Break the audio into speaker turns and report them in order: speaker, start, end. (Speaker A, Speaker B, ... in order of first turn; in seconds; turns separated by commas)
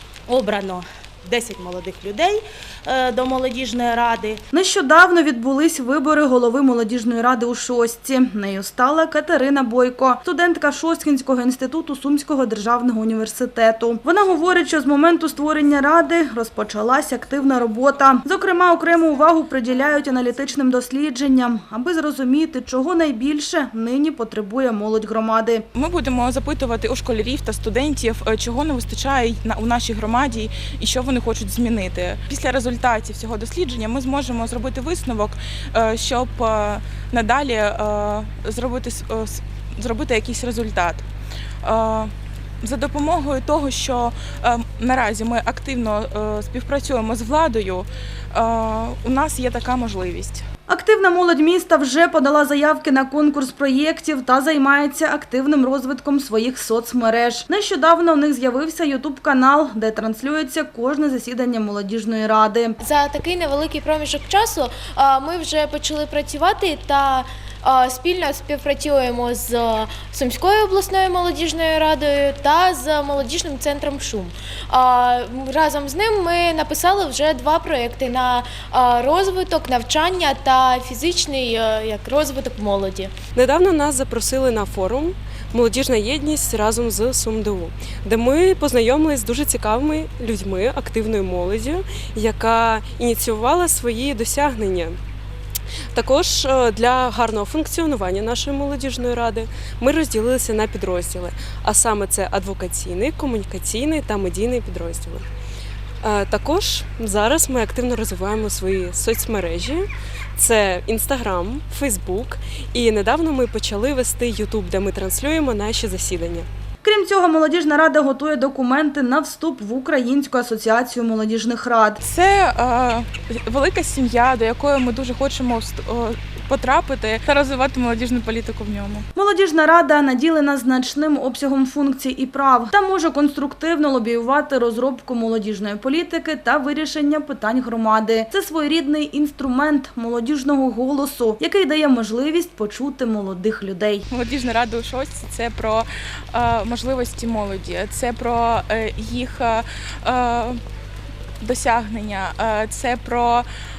Speaker A: 0.3-4.4, Speaker B: 4.5-25.6, Speaker C: 25.7-41.0, Speaker C: 41.6-50.4, Speaker B: 50.7-62.7, Speaker D: 62.8-83.1, Speaker E: 83.3-95.0, Speaker E: 95.9-105.2, Speaker E: 106.0-116.5, Speaker B: 116.8-122.0, Speaker C: 122.0-129.0, Speaker B: 129.1-144.1, Speaker C: 144.1-150.6, Speaker C: 151.4-153.4